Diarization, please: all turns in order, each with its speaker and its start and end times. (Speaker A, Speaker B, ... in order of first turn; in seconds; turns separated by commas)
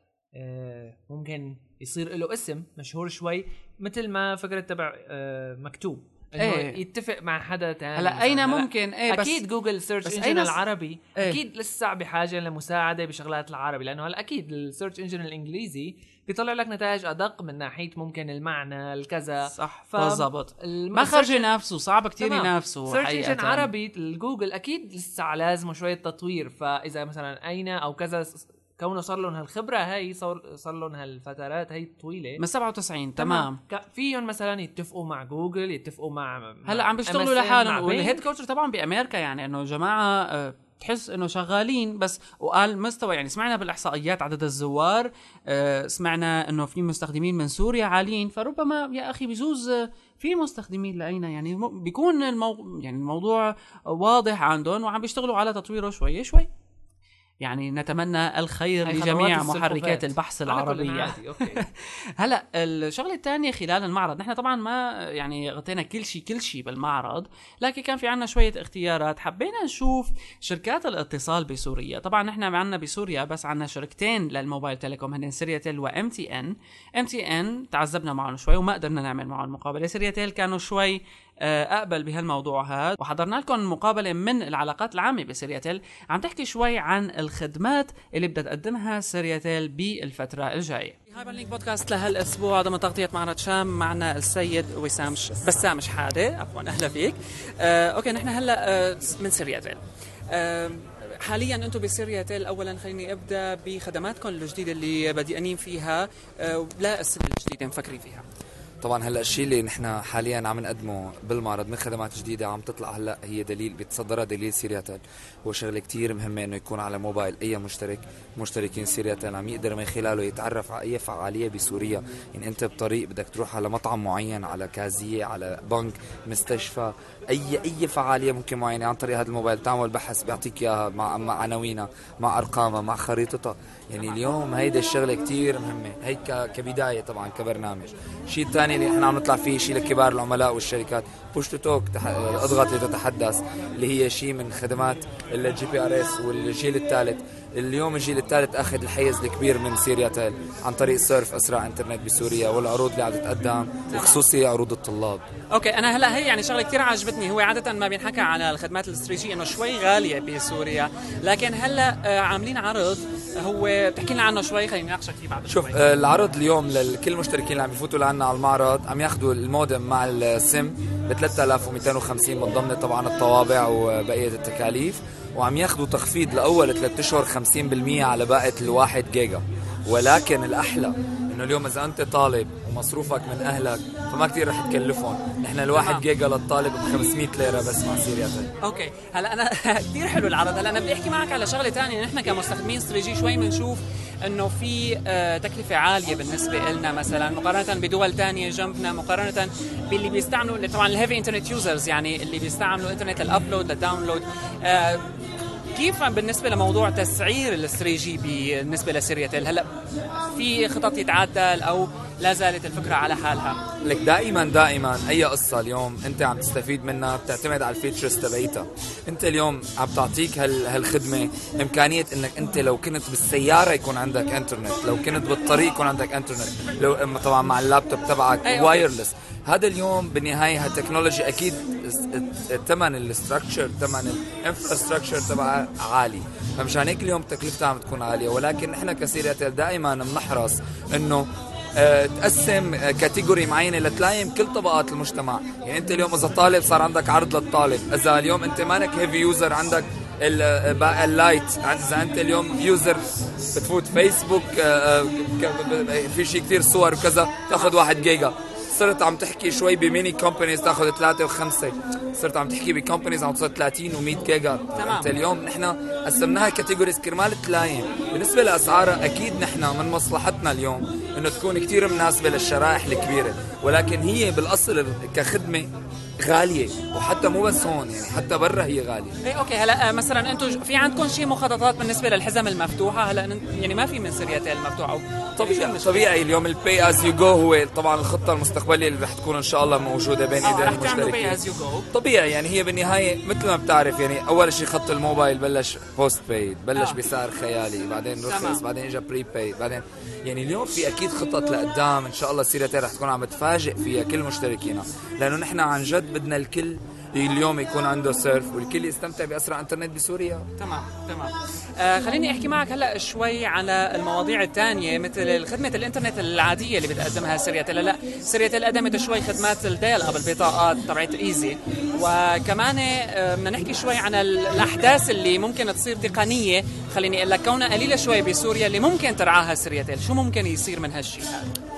Speaker A: 0.3-21.5, Speaker B: 6.4-6.8, Speaker B: 8.0-9.4, Speaker B: 10.0-10.6, Speaker B: 19.5-23.7, Speaker A: 22.2-32.4, Speaker B: 32.4-33.6, Speaker A: 33.2-38.2, Speaker B: 36.7-56.5, Speaker B: 57.4-108.2, Speaker A: 58.9-61.6, Speaker C: 108.8-155.2, Speaker B: 153.9-154.2, Speaker B: 155.5-166.2, Speaker C: 165.5-188.5, Speaker B: 185.7-186.0, Speaker B: 188.6-205.2, Speaker B: 205.7-209.7, Speaker B: 210.3-213.6, Speaker C: 213.8-279.2, Speaker B: 228.4-228.9, Speaker B: 257.5-257.9, Speaker B: 264.8-265.1, Speaker B: 279.2-286.0, Speaker C: 285.4-291.4, Speaker B: 290.4-291.9, Speaker C: 291.9-310.5, Speaker B: 296.8-297.0, Speaker B: 298.2-298.6, Speaker B: 310.6-331.5